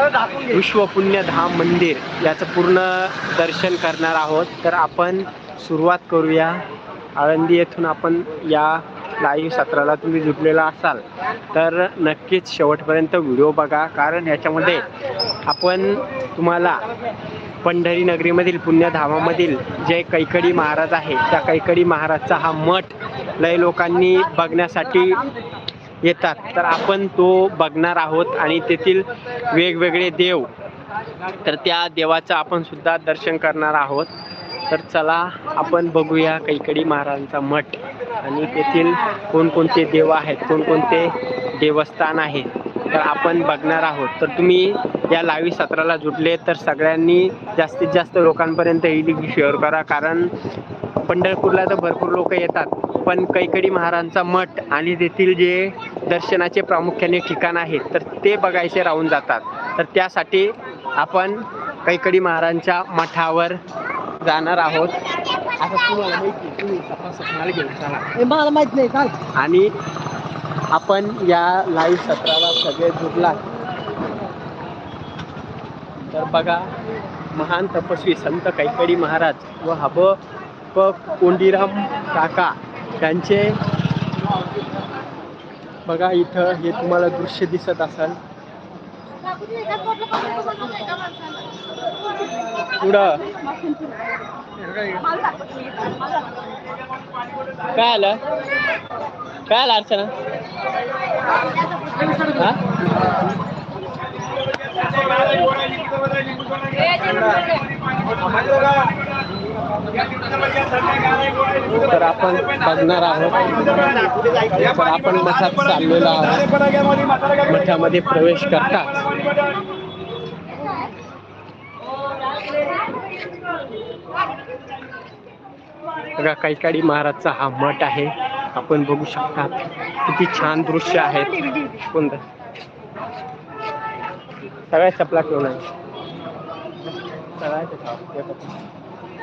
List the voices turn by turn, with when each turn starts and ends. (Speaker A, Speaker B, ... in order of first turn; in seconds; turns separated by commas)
Speaker A: 0.4-6.6, Speaker A: 7.2-14.8, Speaker A: 15.5-16.8, Speaker A: 17.6-25.2, Speaker A: 26.0-30.5, Speaker A: 31.4-34.1, Speaker A: 34.7-50.3, Speaker A: 51.0-63.6, Speaker A: 64.2-65.0, Speaker A: 65.6-68.1, Speaker B: 68.2-69.2, Speaker A: 69.3-69.7, Speaker A: 70.7-73.4, Speaker A: 76.1-76.7, Speaker A: 77.3-80.2, Speaker A: 80.7-83.6, Speaker A: 85.8-88.2, Speaker B: 89.3-91.5, Speaker B: 92.2-96.5, Speaker A: 92.8-93.2, Speaker A: 97.7-98.2, Speaker A: 99.5-100.1, Speaker B: 101.7-102.4, Speaker A: 102.3-102.6, Speaker B: 105.1-105.7, Speaker A: 111.6-116.6, Speaker A: 117.4-119.1, Speaker A: 126.2-132.2, Speaker A: 134.7-135.6, Speaker A: 137.4-138.6